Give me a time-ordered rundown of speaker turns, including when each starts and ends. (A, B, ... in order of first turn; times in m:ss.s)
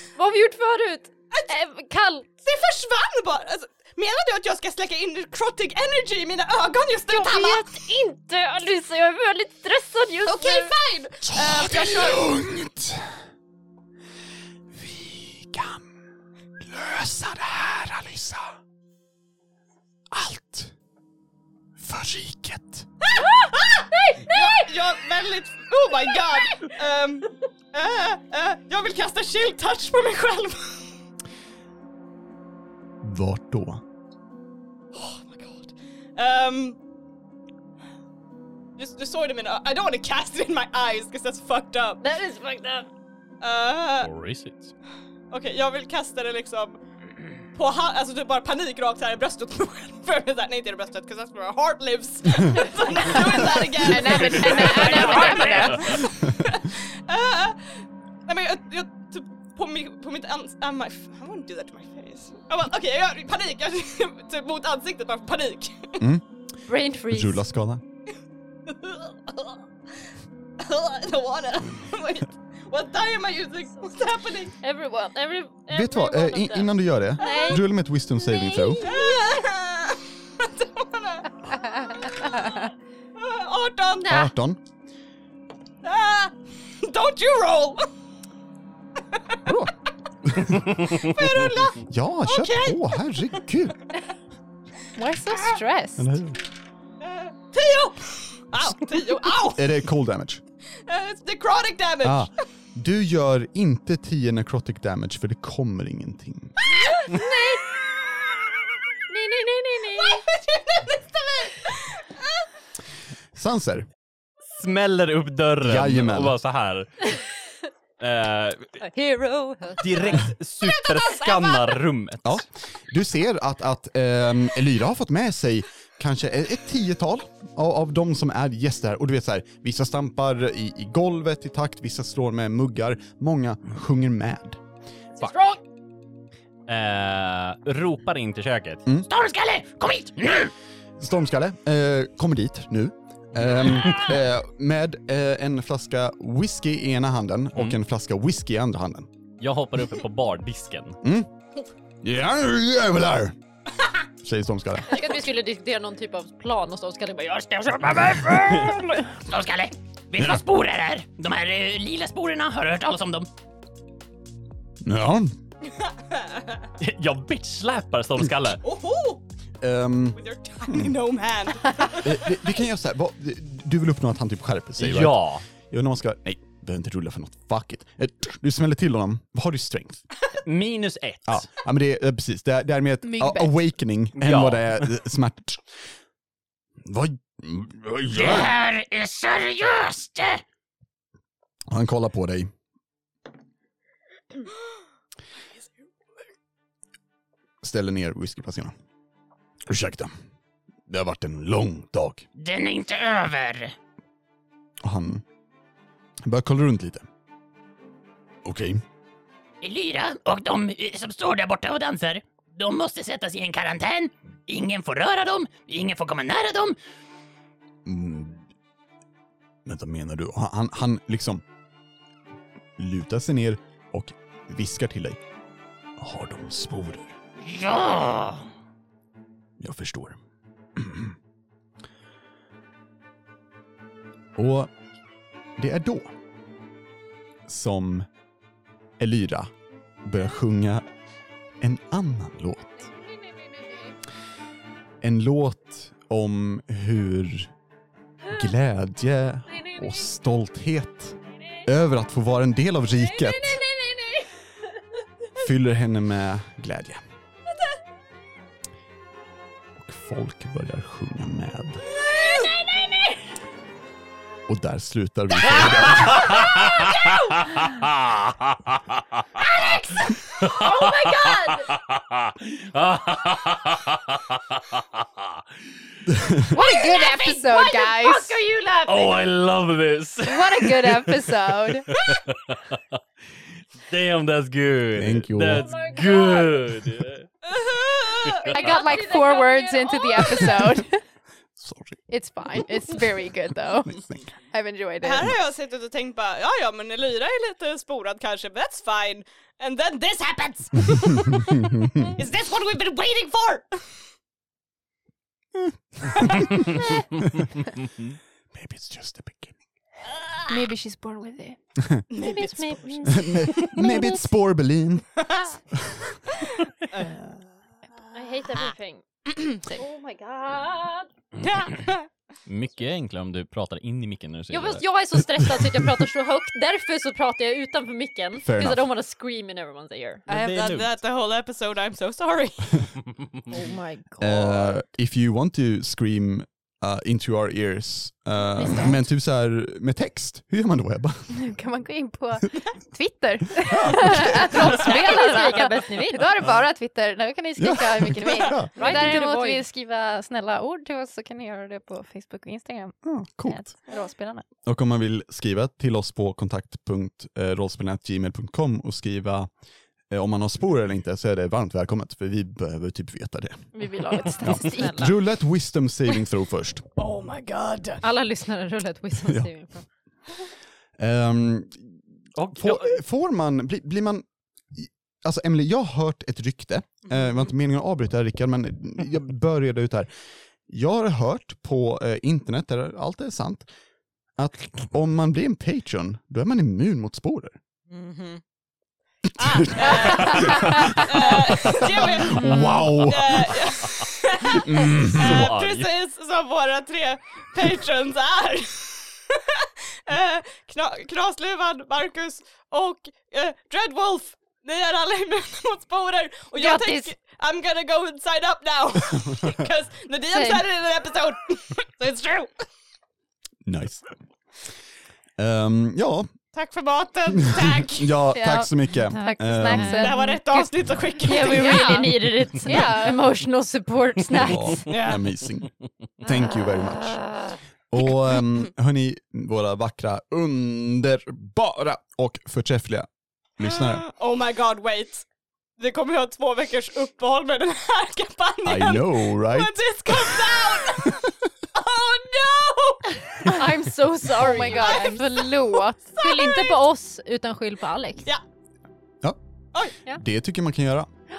0:00.2-0:02.3 A
0:02.4-0:07.9 B
0:07.1-0:10.7 A
0:10.2-0:12.3 B
0:11.2-0:13.2 C
0:14.7-0:15.8 C
0:16.6-0:18.6 C
0:20.1-0:20.7 C
0:21.8-0:22.9 C
0:23.1-0:30.8 B
0:23.9-0:24.5 A
0:33.0-0:33.8 C
0:34.9-0:36.8 B
0:38.8-0:42.0 B
0:42.0-0:42.9 A
0:43.4-0:44.1 B
0:44.0-0:44.7 D
0:45.3-0:46.8 B
0:47.5-1:06.1 B
0:53.4-0:56.0 E
0:54.2-0:55.8 D
1:06.0-1:06.2 C
1:06.7-1:07.4 A
1:07.1-1:07.8 C
1:08.7-1:09.6 B
1:10.6-1:14.6 B
1:14.6-1:17.7 A
1:15.7-1:18.9 C
1:18.2-1:19.2 A
1:18.8-1:21.3 B
1:22.2-1:22.6 E
1:23.1-1:24.3 B
1:24.1-1:24.6 C
1:25.8-1:27.8 B
1:29.4-1:31.1 C
1:30.8-1:32.8 B
1:31.8-1:33.8 C
1:34.9-1:36.2 E
1:36.0-1:36.4 C
1:37.0-1:39.7 B
1:39.4-1:40.4 C
1:40.8-1:42.3 B
1:42.0-1:46.5 C
1:46.8-1:47.7 A
1:47.1-1:47.4 B
1:49.1-1:50.2 A
1:49.9-1:52.4 B
1:53.3-1:53.9 C
1:54.5-1:57.2 D
1:55.6-1:56.4 C
1:58.0-1:58.8 D
1:58.8-2:00.3 A
1:59.8-2:02.4 D
2:00.8-2:01.6 B
2:02.2-2:14.6 C
2:15.2-2:15.6 A
2:16.7-2:18.9 D
2:19.0-2:20.5 F
2:21.0-2:29.1 C
2:29.4-2:31.0 D
2:31.0-2:31.3 C
2:32.0-2:33.4 C
2:34.2-2:35.0 C
2:34.9-2:38.6 A
2:37.9-2:38.9 D
2:39.3-2:43.3 F
2:44.8-2:45.3 C
2:45.8-2:46.6 B
2:46.8-2:48.6 D
2:48.6-2:49.2 B
2:49.6-2:50.9 C
2:50.1-2:52.2 B
2:52.0-3:00.0 C
2:54.8-2:55.4 D
3:00.4-3:01.5 D
3:01.3-3:05.7 C
3:03.0-3:03.5 E
3:04.2-3:04.9 D
3:06.8-3:08.6 C
3:08.1-3:10.4 F
3:11.7-3:12.5 C
3:17.6-3:18.7 C
3:19.6-3:20.1 C
3:20.9-3:22.3 C
3:22.4-3:23.7 F
3:24.8-3:25.2 C
3:26.2-3:27.0 C
3:28.4-3:28.8 C
3:29.6-3:36.8 F
3:37.8-3:38.5 C
3:39.6-3:41.4 C
3:42.8-3:45.2 C
3:46.0-3:47.2 C
3:47.4-3:48.5 F
3:49.6-3:50.2 C
3:50.8-3:51.2 C
3:54.4-3:54.7 C
3:55.6-3:56.1 C
3:57.4-3:58.1 C
3:59.0-3:59.5 C
4:00.0-4:00.9 C
4:01.6-4:02.9 C
4:02.9-4:04.0 A
4:05.0-4:07.5 C
4:08.2-4:13.6 C
4:09.5-4:10.0 A
4:13.0-4:14.3 A
4:15.4-4:17.0 C
4:19.8-4:21.8 C
4:21.9-4:22.6 B
4:22.0-4:23.3 A
4:24.5-4:26.4 C
4:26.1-4:29.4 D
4:29.4-4:31.7 A
4:30.4-4:35.4 D
4:36.1-4:36.6 C
4:36.5-4:38.4 E
4:36.7-4:39.3 A
4:38.8-4:42.8 D
4:40.2-4:41.9 E
4:43.8-4:47.3 D
4:44.9-4:45.7 C
4:45.6-4:46.7 A
4:47.4-4:48.6 B
4:48.3-4:50.7 A
4:48.4-4:51.0 E
4:51.6-4:52.0 C
4:52.1-4:54.0 E
4:53.8-4:54.2 C
4:54.5-4:55.3 E
4:55.0-5:03.9 B
5:01.0-5:02.1 C
5:05.6-5:06.6 C
5:08.5-5:09.6 C
5:10.5-5:11.6 E
5:12.1-5:13.4 B
5:12.2-5:14.3 A
5:13.0-5:15.1 C
5:15.3-5:15.5 B
5:16.4-5:17.3 B
5:18.1-5:19.0 A
5:19.6-5:21.1 A
5:21.4-5:22.1 B
5:22.4-5:24.8 D
5:24.5-5:30.2 A
5:28.4-5:28.8 C
5:30.3-5:30.9 D
5:30.3-5:32.9 B
5:33.5-5:34.8 A
5:34.2-5:41.4 C
5:38.6-5:39.0 A
5:41.3-5:54.4 E
5:43.6-5:44.8 C
5:44.2-5:46.3 A
5:47.6-5:49.2 C
5:48.7-5:49.7 A
5:53.0-5:53.7 C
5:54.6-5:59.5 C
6:00.1-6:06.8 C
6:03.7-6:05.0 E
6:04.4-6:05.1 A
6:07.1-6:08.0 B
6:08.0-6:09.8 A
6:09.2-6:09.5 C
6:11.0-6:12.0 C
6:12.4-6:12.9 D
6:12.5-6:20.1 C
6:20.7-6:23.7 C
6:24.4-6:27.6 C
6:27.9-6:28.4 B
6:29.4-6:33.6 C
6:29.4-6:52.6 B
6:30.1-6:30.8 A
6:34.5-6:35.5 C
6:35.0-6:35.9 D
6:46.6-6:47.1 A
6:50.3-6:50.6 A
6:53.6-6:54.2 C
6:55.4-6:56.3 C
6:56.5-6:58.3 B
6:57.3-7:00.1 C
6:58.3-7:03.3 E
6:59.1-7:00.3 A
7:00.0-7:02.1 B
7:01.2-7:04.8 A
7:04.3-7:14.0 C
7:04.9-7:05.2 B
7:13.6-7:15.2 B
7:15.8-7:23.5 B
7:18.6-7:21.2 C
7:23.4-7:25.2 A
7:24.4-7:26.2 E
7:24.4-7:26.8 B
7:26.1-7:28.2 A
7:30.0-7:31.1 C